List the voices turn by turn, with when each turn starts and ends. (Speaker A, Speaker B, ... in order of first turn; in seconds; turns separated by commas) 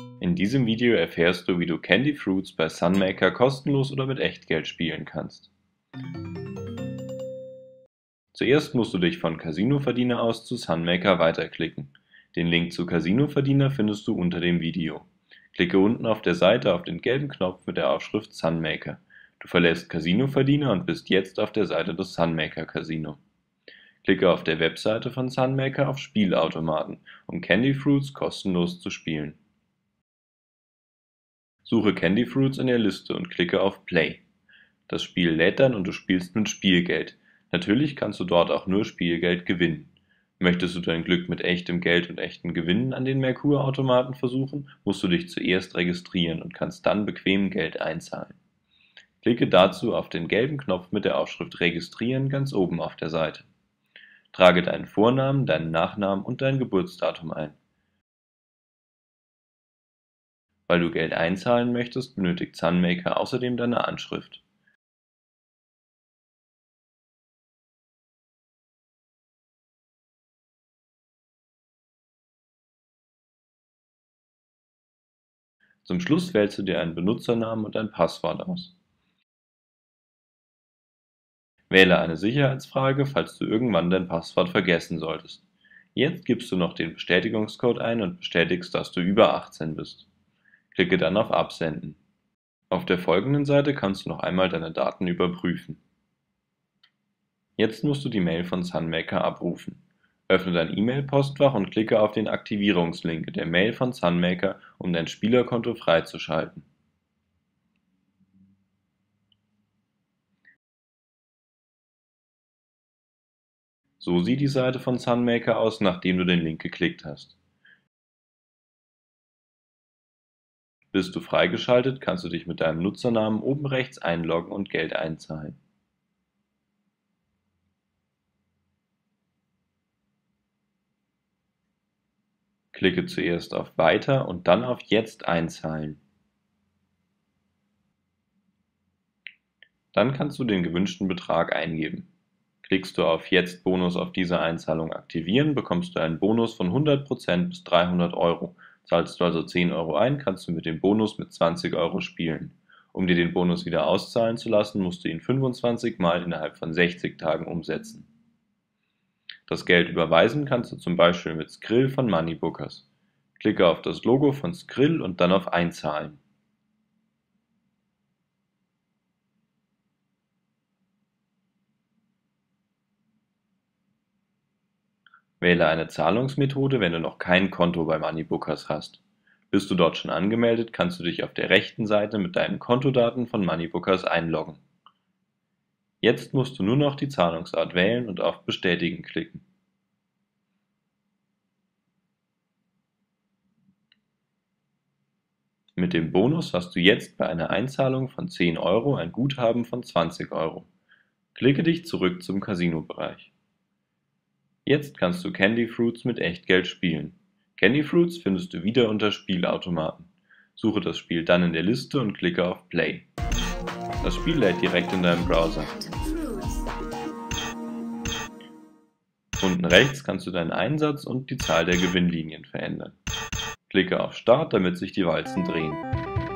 Speaker A: 0.2-5.5, Speaker A: 8.3-23.2, Speaker A: 24.0-29.4, Speaker A: 31.7-34.2, Speaker A: 34.9-48.4, Speaker A: 49.2-53.5, Speaker A: 54.3-57.6, Speaker A: 60.7-64.4, Speaker A: 75.8-78.7, Speaker A: 81.7-85.4, Speaker A: 85.9-90.1, Speaker A: 90.7-92.0, Speaker A: 92.7-95.8, Speaker A: 97.6-106.7, Speaker A: 114.0-117.3, Speaker A: 120.9-125.6, Speaker A: 132.7-136.0, Speaker A: 139.9-142.1, Speaker A: 142.6-158.1, Speaker A: 159.5-162.9, Speaker A: 163.4-166.2, Speaker A: 175.4-184.6, Speaker A: 186.0-189.4, Speaker A: 195.8-200.7, Speaker A: 201.3-203.3, Speaker A: 204.7-213.1, Speaker A: 214.0-216.1, Speaker A: 219.4-223.0, Speaker A: 223.7-225.8